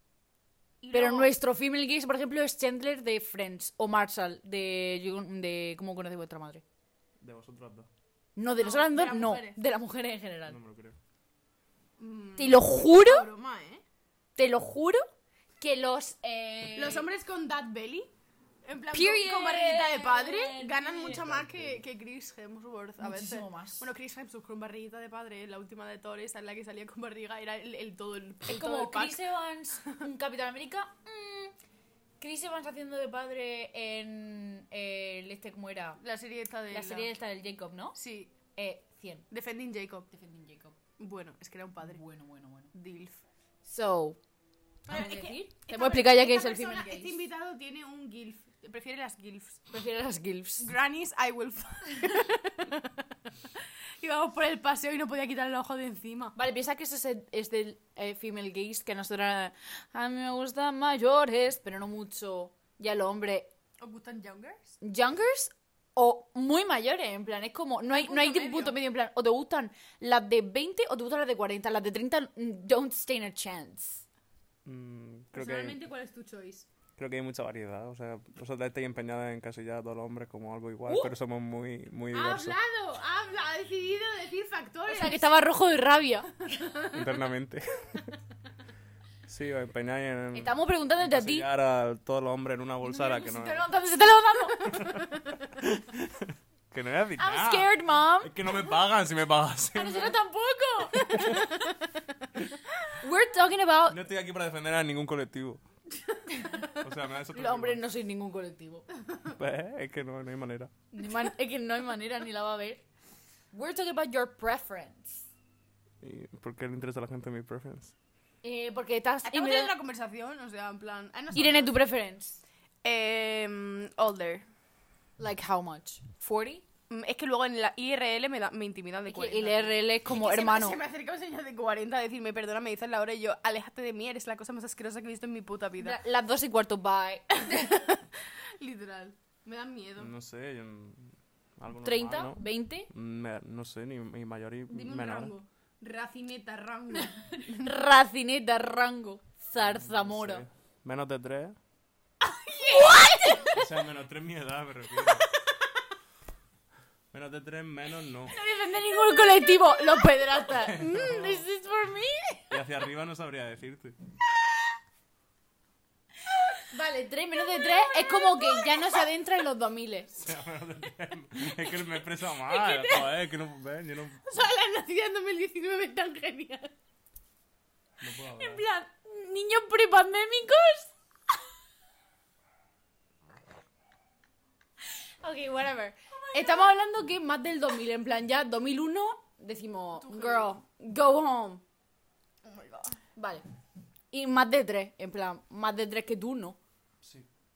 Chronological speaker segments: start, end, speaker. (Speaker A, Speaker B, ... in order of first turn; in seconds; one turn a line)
Speaker A: 0.8-1.3
Speaker B: 0.9-6.6
Speaker C: 7.2-7.9
Speaker B: 8.4-10.6
Speaker A: 8.6-9.6
Speaker C: 10.5-11.0
Speaker A: 12.0-13.8
Speaker B: 12.4-13.3
Speaker B: 14.4-15.0
Speaker B: 15.6-17.1
Speaker A: 16.8-18.1
Speaker A: 18.6-29.2
Speaker B: 18.9-21.2
Speaker C: 21.0-21.9
Speaker B: 23.0-23.9
Speaker B: 28.5-31.5
Speaker B: 32.2-36.0
Speaker A: 36.0-37.1
Speaker B: 36.7-38.0
Speaker A: 38.0-38.3
Speaker B: 38.6-39.3
Speaker A: 39.3-40.1
Speaker B: 40.1-40.8
Speaker A: 41.0-42.0
Speaker B: 41.8-42.7
Speaker A: 42.7-43.2
Speaker B: 43.6-44.2
Speaker B: 44.9-47.2
Speaker A: 44.9-49.6
Speaker B: 49.7-50.7
Speaker A: 50.6-53.0
Speaker A: 54.0-56.3
Speaker B: 56.4-63.5
Speaker A: 63.8-64.7
Speaker B: 64.8-74.0
Speaker A: 67.9-68.8
Speaker C: 74.7-75.8
Speaker A: 75.3-76.7
Speaker C: 77.0-82.6
Speaker B: 80.9-81.1
Speaker A: 82.1-85.3
Speaker B: 84.9-86.3
Speaker A: 86.5-87.1
Speaker C: 86.9-88.1
Speaker C: 89.3-93.7
Speaker B: 90.3-91.5
Speaker B: 92.9-94.8
Speaker A: 94.4-95.2
Speaker C: 95.6-100.2
Speaker B: 97.2-98.4
Speaker B: 99.7-101.5
Speaker A: 100.9-101.8
Speaker B: 103.0-104.0
Speaker C: 103.9-105.6
Speaker B: 106.4-106.7
Speaker C: 106.8-107.9
Speaker B: 107.3-108.9
Speaker C: 109.3-110.7
Speaker B: 110.9-112.8
Speaker B: 113.5-115.3
Speaker C: 116.0-117.9
Speaker B: 118.4-119.7
Speaker A: 119.2-121.8
Speaker B: 121.3-122.4
Speaker A: 122.8-124.5
Speaker B: 125.2-126.7
Speaker A: 126.9-136.0
Speaker B: 129.1-130.8
Speaker B: 135.8-137.9
Speaker A: 137.5-140.1
Speaker C: 140.0-145.3
Speaker B: 141.8-142.9
Speaker A: 144.7-147.6
Speaker B: 147.0-150.4
Speaker C: 149.6-151.6
Speaker A: 152.5-153.7
Speaker B: 152.7-153.5
Speaker C: 153.6-155.3
Speaker C: 157.1-158.4
Speaker B: 158.3-162.6
Speaker C: 160.7-161.4
Speaker C: 162.5-164.0
Speaker B: 166.7-170.1
Speaker A: 167.4-169.1
Speaker C: 170.2-174.2
Speaker A: 172.4-173.2
Speaker A: 174.2-176.7
Speaker C: 178.0-178.7
Speaker B: 178.1-180.9
Speaker B: 185.2-191.6
Speaker A: 186.1-186.8
Speaker A: 190.0-190.6
Speaker A: 192.4-193.0
Speaker B: 193.2-193.4
Speaker B: 194.1-196.6
Speaker C: 197.0-197.3